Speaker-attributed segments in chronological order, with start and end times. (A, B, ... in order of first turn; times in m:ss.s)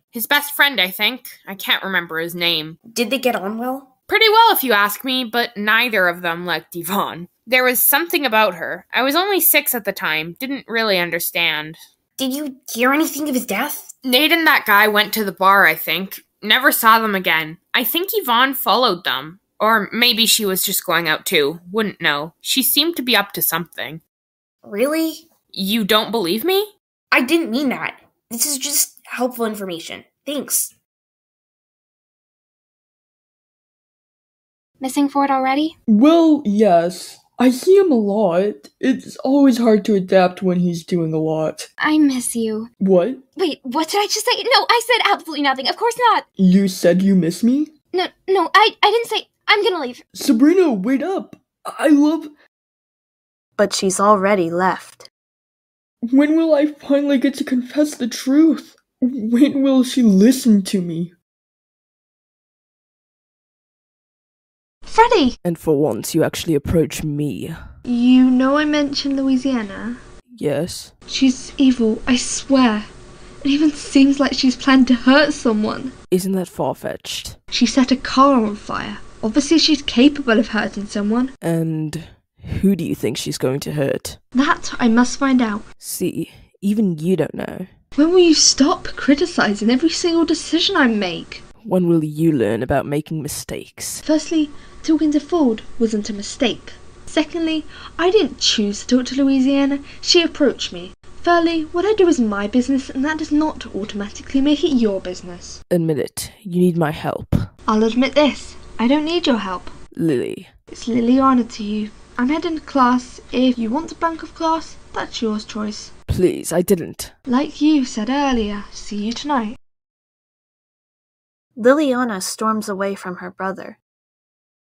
0:00.1-0:02.8 A
0:02.8-0:03.9 B
0:04.1-0:11.8 A
0:12.2-0:14.0 B
0:14.0-0:24.0 A
0:24.6-0:25.3 B
0:25.5-0:26.7 A
0:27.1-0:30.7 B
0:34.8-0:35.7 C
0:35.9-0:41.7 D
0:41.8-0:42.7 C
0:42.8-0:43.2 D
0:43.4-0:46.2 C
0:46.4-0:47.7 D
0:47.9-0:50.0 C
0:50.1-0:52.3 D
0:53.6-0:55.1 E
0:56.1-1:01.1 D
1:04.9-1:05.3 F
1:05.4-1:07.8 G
1:07.9-1:10.0 F
1:10.3-1:10.9 G
1:11.1-1:12.8 F
1:13.5-1:15.9 F
1:16.1-1:17.4 G
1:17.5-1:21.3 F
1:21.4-1:24.2 G
1:24.4-1:25.6 F
1:25.8-1:27.8 G
1:28.0-1:31.4 F
1:31.6-1:34.0 G
1:34.1-1:45.6 F
1:45.7-1:47.5 G
1:47.7-1:49.7 F
1:49.9-1:50.5 G
1:50.8-1:55.9 F
1:56.1-1:57.2 G
1:57.3-1:59.6 F
2:01.6-2:03.8 E